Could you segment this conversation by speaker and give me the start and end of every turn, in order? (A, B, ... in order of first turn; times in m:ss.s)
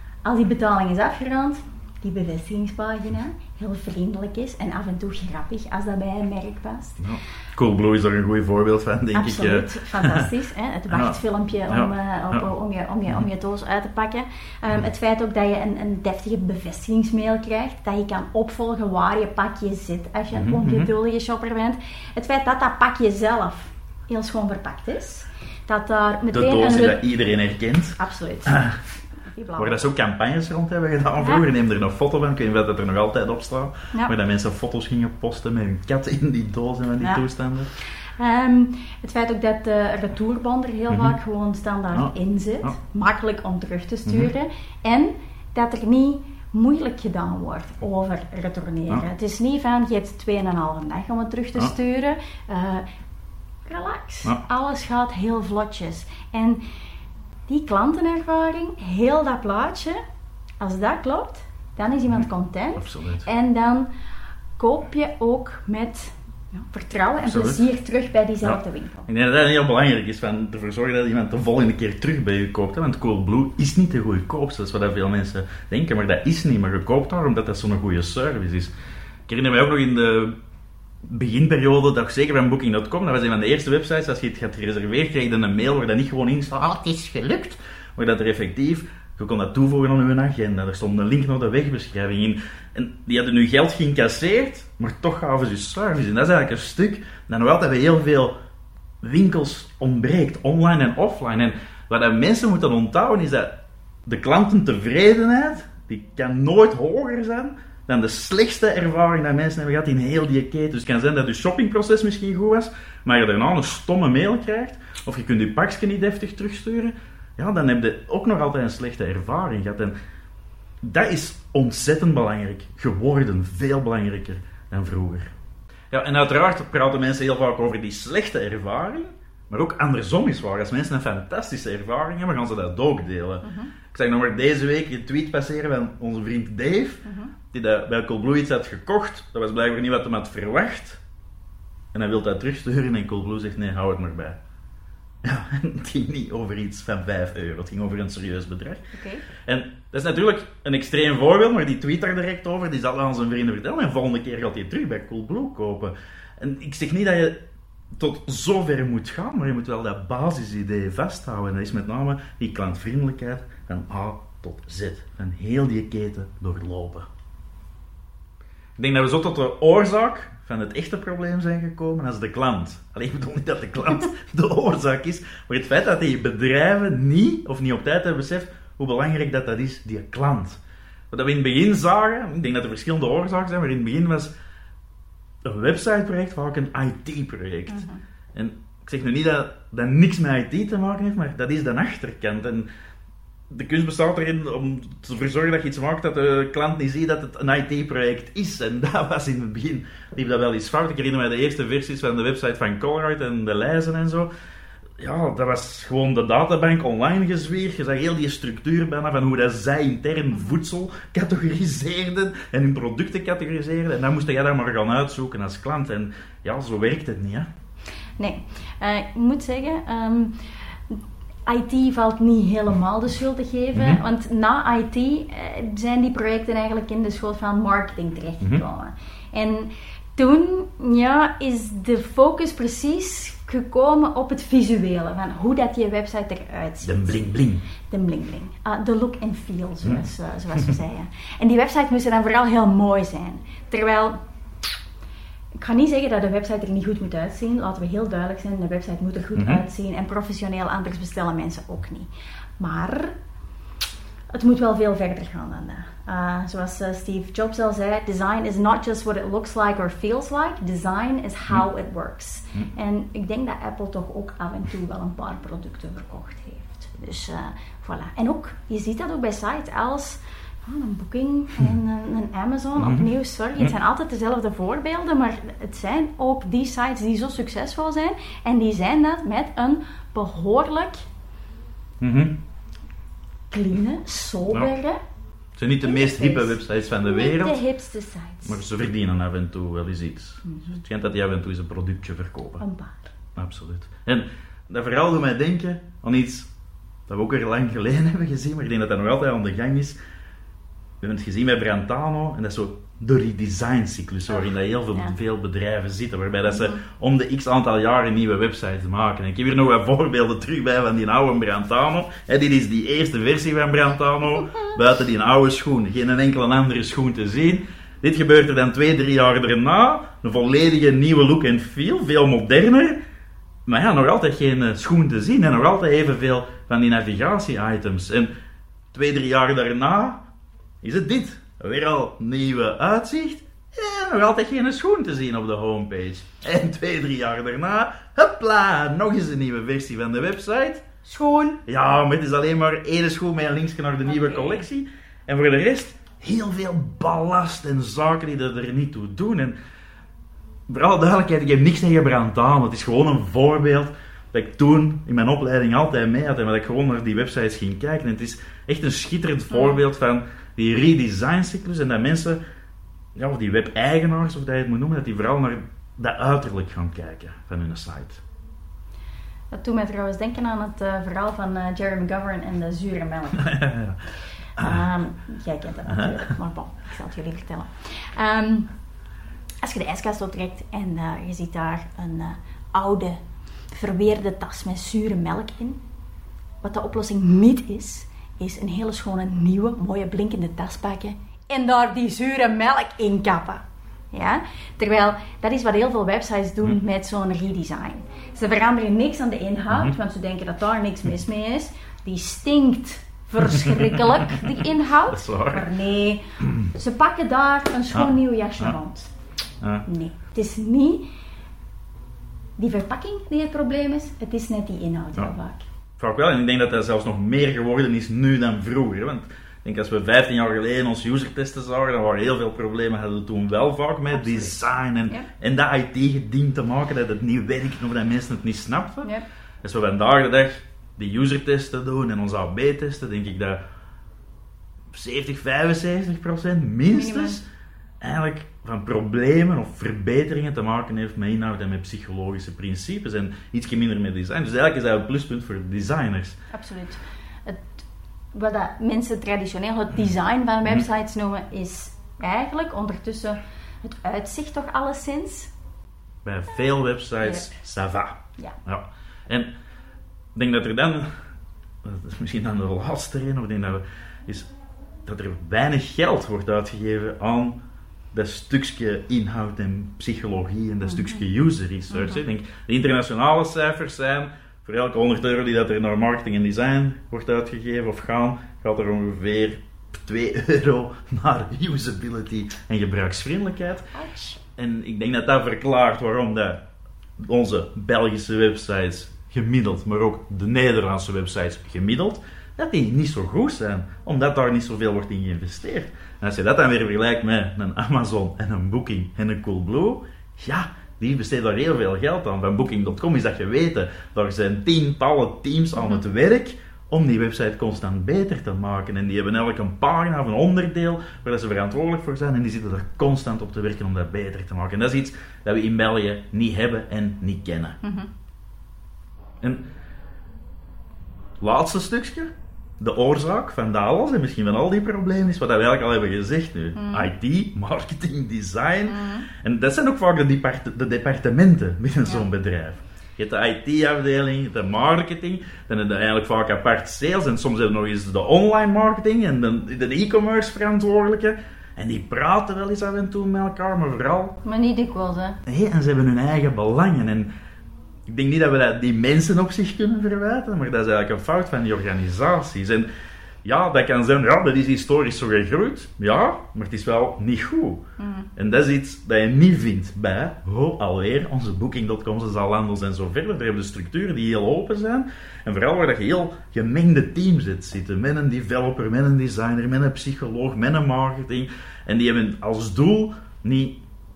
0:00.2-0:07.0 A
0:07.0-0:10.3 B
0:09.1-0:27.0 A
0:10.9-0:11.2 B
0:11.7-0:12.4 B
0:20.3-0:20.9 B
0:26.3-0:28.8 B
0:28.0-0:28.7 A
0:29.3-0:29.8 A
0:29.6-0:37.7 B
0:38.2-0:52.8 A
0:40.9-0:41.2 B
0:41.9-0:42.8 B
0:44.0-0:44.3 B
0:53.7-0:56.6 A
0:57.5-1:00.0 A
1:00.6-1:03.9 A
1:02.8-1:03.3 B
1:04.6-1:09.1 A
1:07.2-1:07.7 B
1:08.4-1:18.7 B
1:19.3-1:20.3 B
1:21.1-1:38.3 B
1:39.0-1:43.5 B
1:44.0-1:59.9 B
2:00.8-2:05.3 B
2:05.9-2:21.0 B
2:13.4-2:13.7 A
2:17.0-2:17.3 A
2:21.9-2:24.4 B
2:25.2-2:28.8 B
2:28.9-2:29.3 A
2:29.5-2:37.4 B
2:38.0-2:47.1 B
2:48.8-3:00.6 B
3:01.1-3:04.3 B
3:05.4-3:12.7 B
3:07.7-3:08.0 A
3:13.5-3:24.3 B
3:25.0-3:37.5 B
3:38.2-3:40.4 A
3:40.9-3:57.2 A
3:43.8-3:44.0 B
3:56.8-3:57.6 B
3:57.9-4:04.2 A
4:05.6-4:13.2 A
4:09.4-4:09.6 B
4:14.3-4:41.0 A
4:32.8-4:33.7 B
4:42.0-4:42.4 B
4:43.5-4:45.0 A
4:45.6-4:47.6 B
4:45.8-4:48.6 A
4:48.4-4:52.6 B
4:52.6-4:53.1 A
4:53.4-4:56.5 B
4:57.1-5:00.0 B
5:01.0-5:23.0 B
5:06.5-5:06.8 A
5:23.7-5:28.3 B
5:28.9-5:30.2 B
5:30.8-5:40.9 B
5:41.0-5:41.6 A
5:41.7-5:49.6 B
5:44.1-5:44.6 A
5:50.7-6:02.4 B
5:59.5-5:59.8 A
6:03.2-6:08.2 B
6:09.5-6:13.6 A
6:13.5-6:14.0 B
6:14.6-6:14.8 B
6:14.6-6:18.7 A
6:15.9-6:16.2 B
6:19.6-6:23.2 A
6:23.7-6:25.8 A
6:26.6-6:49.1 A
6:43.5-6:44.4 B
6:45.1-6:45.6 B
6:47.9-6:48.8 B
6:49.9-6:51.1 A
6:52.6-6:55.6 A
6:56.0-7:09.1 B
7:04.2-7:05.3 A
7:09.6-7:13.6 B
7:14.9-7:17.4 B
7:16.9-7:17.4 A
7:18.0-7:26.4 B
7:26.5-7:27.8 A
7:28.3-7:35.5 A
7:36.2-7:39.5 B
7:37.2-7:37.5 A
7:40.4-7:41.1 B
7:41.8-7:44.5 B
7:45.0-7:47.6 B
7:48.1-8:03.9 B
7:50.8-7:51.2 A
7:51.9-7:52.2 A
8:03.9-8:04.4 A
8:04.6-8:06.6 B
8:07.2-8:37.8 B
8:37.8-8:38.1 A
8:41.4-9:04.4 B
8:46.8-8:47.1 A
8:48.9-8:49.3 A
9:04.4-9:05.4 A
9:05.5-9:07.3 B
9:08.1-9:12.9 B
9:13.4-9:17.8 B
9:18.0-9:18.3 A
9:18.4-9:33.8 B